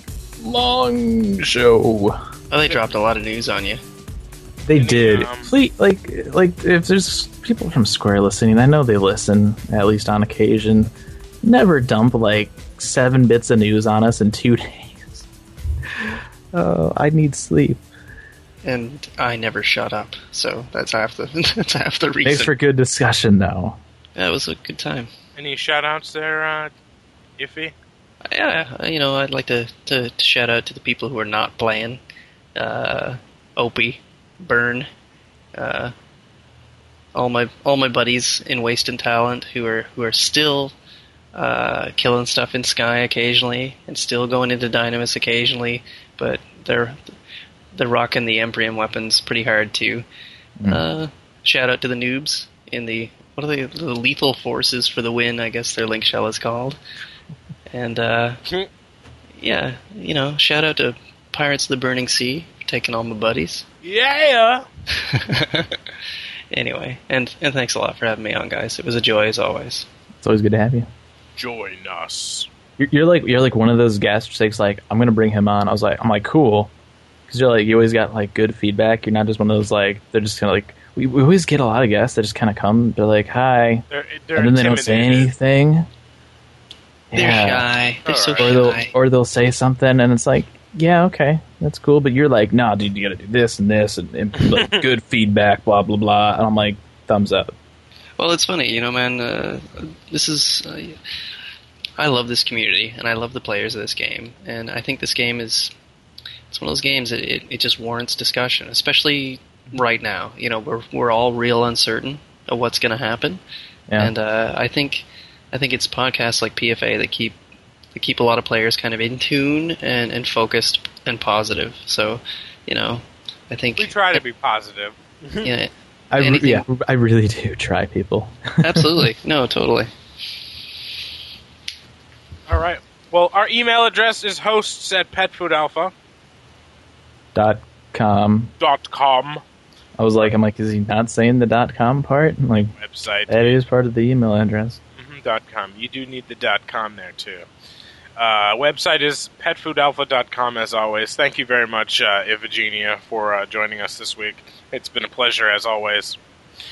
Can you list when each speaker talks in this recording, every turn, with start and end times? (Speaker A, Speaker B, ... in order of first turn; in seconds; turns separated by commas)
Speaker A: 0.4-2.2, Speaker B: 2.5-3.8, Speaker A: 4.6-10.9, Speaker C: 4.7-5.5, Speaker A: 11.4-15.3, Speaker A: 15.9-17.8, Speaker B: 18.6-22.5, Speaker A: 22.2-23.8, Speaker B: 24.1-25.1, Speaker C: 25.4-26.7, Speaker C: 27.4-27.7, Speaker B: 28.3-32.0, Speaker B: 32.5-34.9, Speaker B: 35.5-35.9, Speaker B: 37.1-40.7, Speaker B: 41.3-47.1, Speaker B: 47.7-50.0, Speaker B: 50.6-56.8, Speaker B: 57.7-58.4, Speaker B: 59.4-63.6, Speaker C: 63.8-64.7, Speaker B: 64.9-65.8, Speaker B: 66.5-69.9, Speaker A: 70.2-70.9, Speaker C: 71.4-72.5, Speaker A: 72.8-76.7, Speaker A: 77.3-85.9, Speaker C: 83.9-85.3, Speaker A: 87.1-87.7, Speaker B: 87.1-88.9, Speaker C: 88.0-88.7, Speaker A: 88.4-97.5, Speaker C: 94.5-94.8, Speaker B: 98.2-101.0, Speaker B: 102.0-105.7, Speaker B: 106.5-113.4, Speaker B: 114.0-117.4, Speaker B: 117.9-124.2, Speaker C: 123.8-125.5, Speaker B: 125.4-126.7, Speaker A: 126.1-129.1, Speaker B: 128.6-129.9, Speaker C: 132.5-135.9, Speaker A: 137.3-138.5, Speaker C: 138.6-139.4, Speaker A: 140.0-142.7, Speaker C: 142.7-143.6, Speaker A: 143.3-144.8, Speaker C: 145.0-147.5, Speaker C: 148.2-156.2